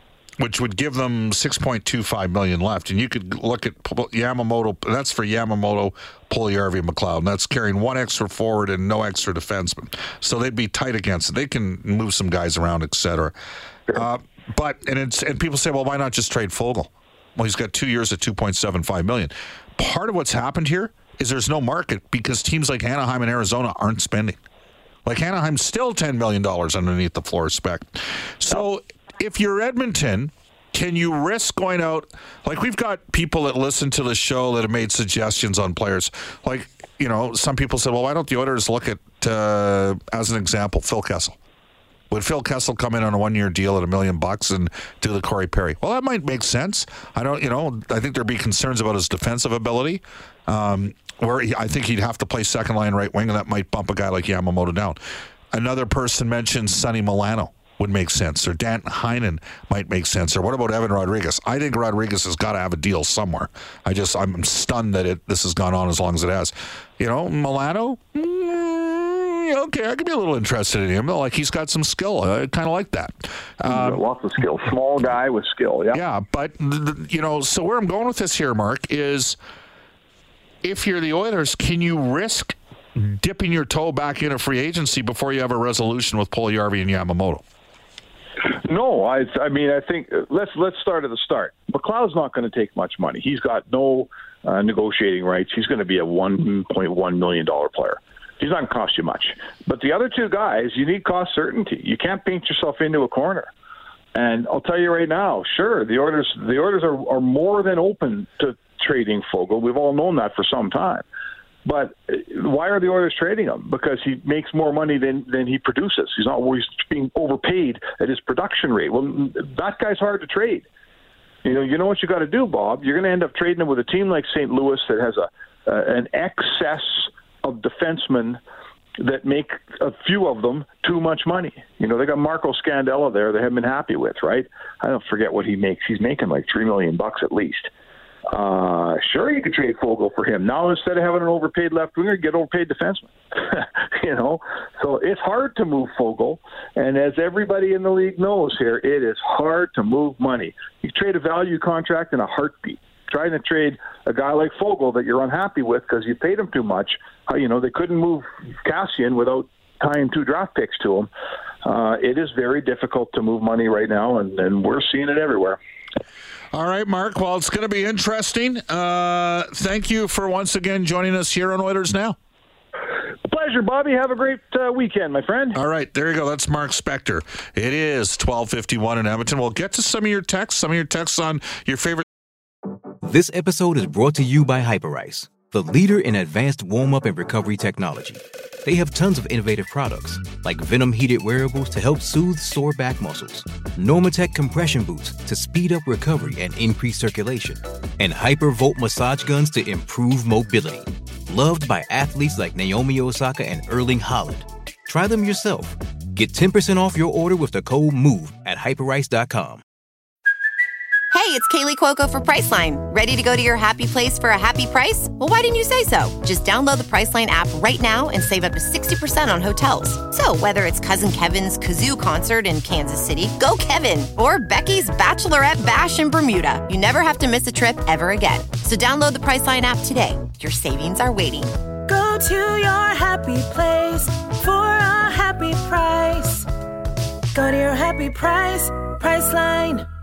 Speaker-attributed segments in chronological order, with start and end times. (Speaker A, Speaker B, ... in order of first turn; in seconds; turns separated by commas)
Speaker A: 0.4-13.3, Speaker A: 13.9-24.4, Speaker A: 25.1-41.4, Speaker A: 42.1-55.0, Speaker A: 55.5-74.0, Speaker B: 73.7-76.0, Speaker A: 75.9-79.4, Speaker A: 80.6-87.4, Speaker B: 88.6-103.5, Speaker B: 104.1-111.0, Speaker B: 111.6-120.7, Speaker B: 121.4-128.4, Speaker B: 129.0-137.7, Speaker B: 138.3-161.1, Speaker B: 161.6-165.6, Speaker A: 166.5-172.2, Speaker B: 173.3-175.6, Speaker A: 175.5-182.0, Speaker C: 183.0-209.6, Speaker D: 211.1-231.5, Speaker E: 231.9-236.5, Speaker E: 237.3-239.8